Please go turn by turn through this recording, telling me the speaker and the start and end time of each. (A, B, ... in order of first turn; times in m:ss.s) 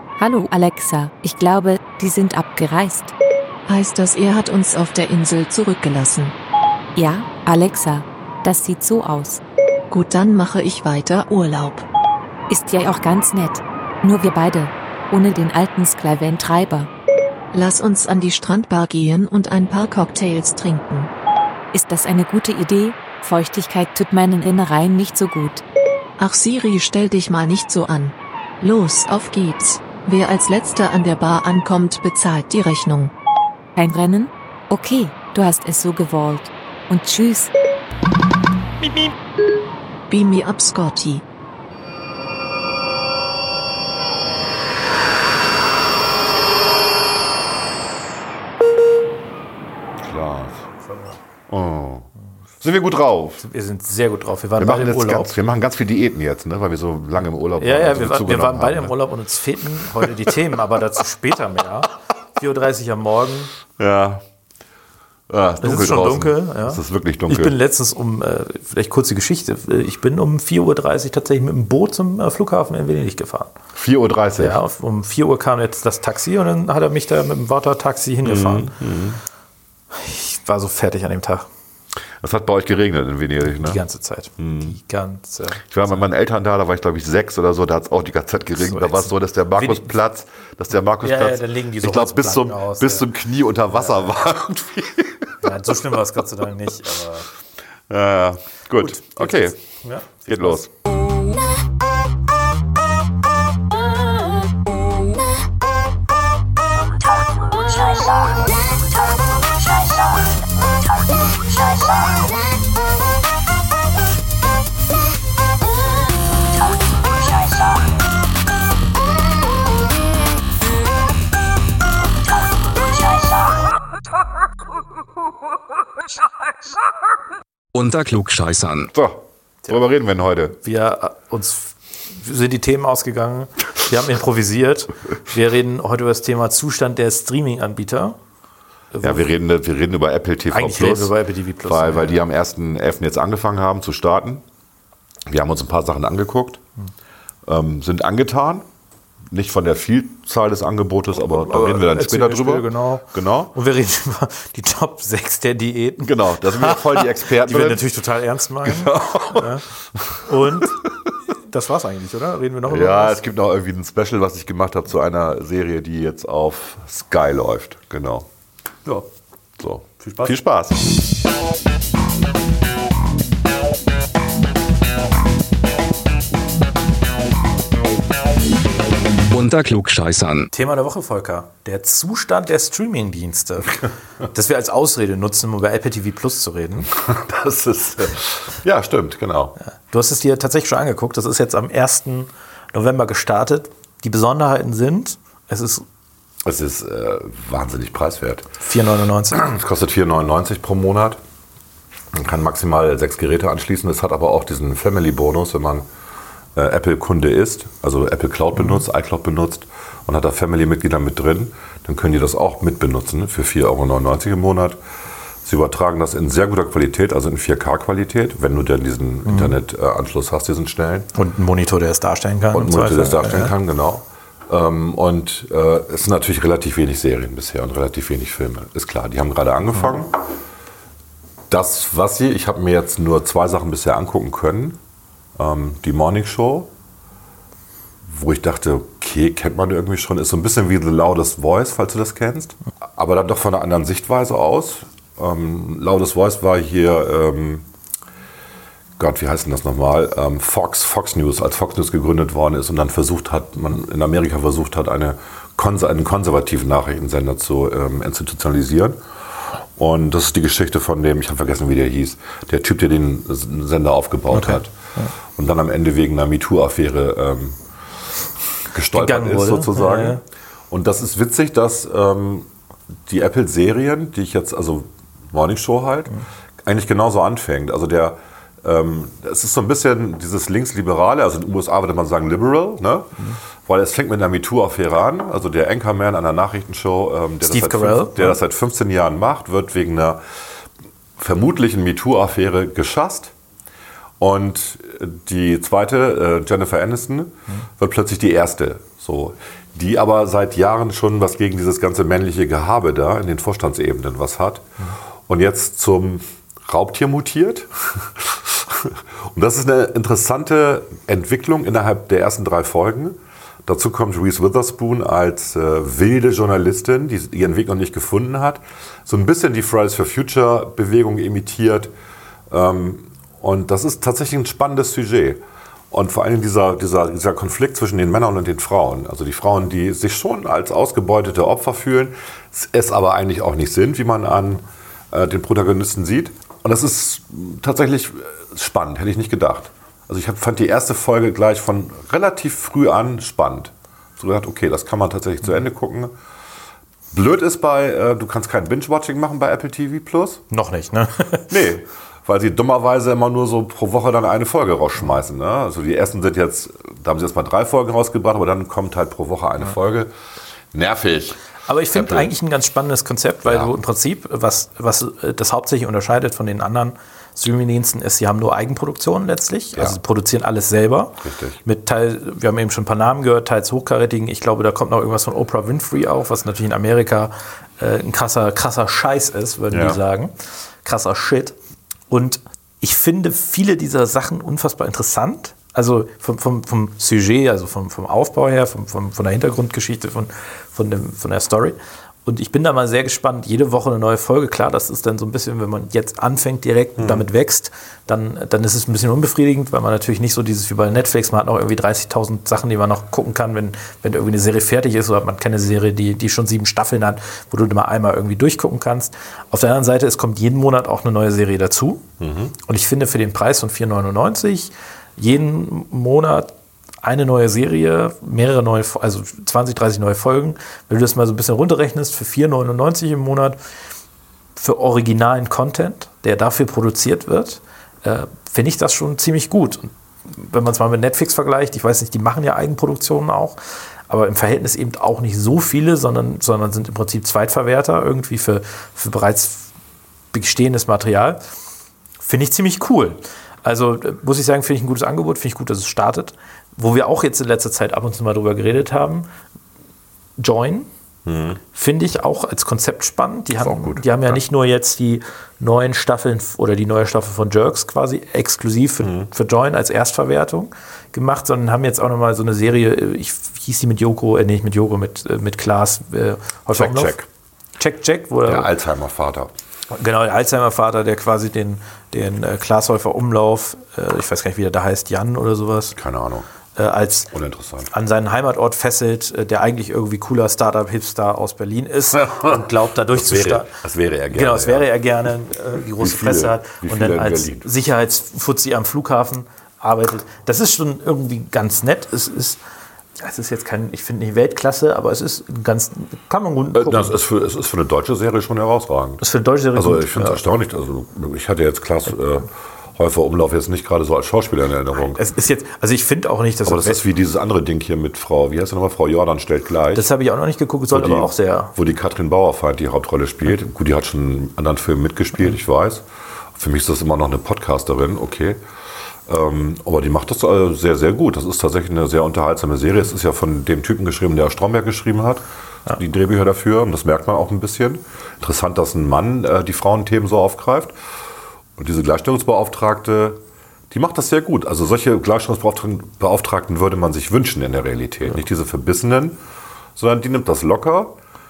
0:00.2-0:03.1 A
0:03.7-0:06.4 B
0:07.0-0:09.4 A
0:09.9-0:11.9 B
0:12.5-0:16.9 A
0:17.5-0:21.1 B
0:21.7-0:25.6 A
0:26.2-0:33.1 B
0:33.8-0:37.5 A
0:40.1-0:41.2 B
0:50.0-0:50.7 C
0:50.9-0:51.2 D
0:51.5-0:52.1 C
0:52.6-0:53.4 C
0:53.4-0:55.4 D
0:54.6-0:59.0 C
0:57.6-1:03.5 D
1:03.8-1:04.2 C
1:05.3-1:07.6 C
1:05.6-1:13.5 D
1:13.8-1:14.6 C
1:14.4-1:18.7 D
1:18.2-1:19.2 C
1:19.9-1:21.5 D
1:22.2-1:23.8 C
1:23.5-1:25.7 D
1:24.4-1:24.8 C
1:25.7-1:35.3 C
1:28.6-1:29.9 D
1:31.0-1:33.1 D
1:33.7-1:34.0 D
1:35.4-1:37.3 D
1:37.9-1:39.6 C
1:38.8-1:40.6 D
1:40.3-1:40.7 C
2:07.7-2:08.9 E
2:08.9-2:10.6 C
2:10.6-2:18.2 D
2:18.9-2:19.3 D
2:19.0-2:21.1 C
2:20.5-2:22.1 D
2:21.6-2:24.4 C
2:25.3-2:26.6 C
2:27.5-2:28.7 C
2:29.3-2:33.5 C
2:31.2-2:39.7 D
2:36.0-2:37.9 C
2:38.6-2:41.1 C
2:40.2-2:40.8 D
2:41.4-2:43.2 D
2:42.7-2:48.3 C
2:49.6-2:50.9 C
2:50.0-2:50.3 D
2:59.3-3:00.5 E
3:00.5-3:06.9 D
3:06.9-3:09.6 C
3:09.9-3:15.8 D
3:16.4-3:18.5 C
3:18.6-3:19.4 D
3:19.3-3:21.2 C
3:22.1-3:25.9 C
3:26.6-3:34.8 C
3:35.4-3:41.1 C
3:39.3-3:39.5 D
3:41.1-3:43.5 D
3:42.5-3:50.2 C
3:51.5-3:54.8 C
3:55.4-3:56.7 C
3:58.0-4:07.6 C
4:09.0-4:24.7 C
4:24.3-4:25.1 D
4:25.3-4:27.6 C
4:28.7-4:32.5 C
4:28.9-4:30.2 D
4:33.1-4:50.2 C
4:47.4-4:48.4 D
4:51.2-4:53.3 C
4:54.2-5:04.7 C
5:05.3-5:21.9 C
5:22.5-5:46.2 C
5:47.1-5:50.4 C
5:50.5-5:51.5 D
5:51.5-6:00.1 C
6:00.7-6:02.3 C
6:01.7-6:21.6 D
6:03.4-6:03.7 C
6:11.2-6:11.6 C
6:19.7-6:20.0 C
6:22.1-6:52.0 D
6:37.0-6:37.3 C
6:52.2-6:52.5 C
6:52.6-6:56.5 D
6:57.0-7:03.6 D
7:04.6-7:13.6 D
7:14.1-7:19.7 D
7:20.3-7:21.4 D
7:22.2-7:29.3 D
7:30.4-7:30.9 D
7:31.3-7:31.6 C
7:31.7-7:47.2 D
7:33.6-7:34.4 C
7:39.0-7:39.3 C
7:46.7-7:47.3 C
7:47.8-7:48.7 D
7:48.5-7:49.5 C
7:49.9-7:56.0 D
7:56.0-7:56.5 C
7:56.8-7:57.3 D
7:57.3-7:57.9 C
7:57.9-8:03.7 D
8:02.2-8:02.6 C
8:03.1-8:04.9 C
8:04.3-8:12.6 D
8:06.0-8:07.7 C
8:13.2-8:17.1 D
8:16.7-8:19.2 C
8:19.2-8:20.4 D
8:19.7-8:25.2 C
8:25.0-8:27.0 D
8:26.6-8:30.1 C
8:29.9-8:31.8 D
8:30.9-8:36.0 C
8:36.6-8:38.6 C
8:39.3-8:50.9 C
8:51.8-8:53.4 C
8:53.9-8:59.4 C
9:00.0-9:01.2 C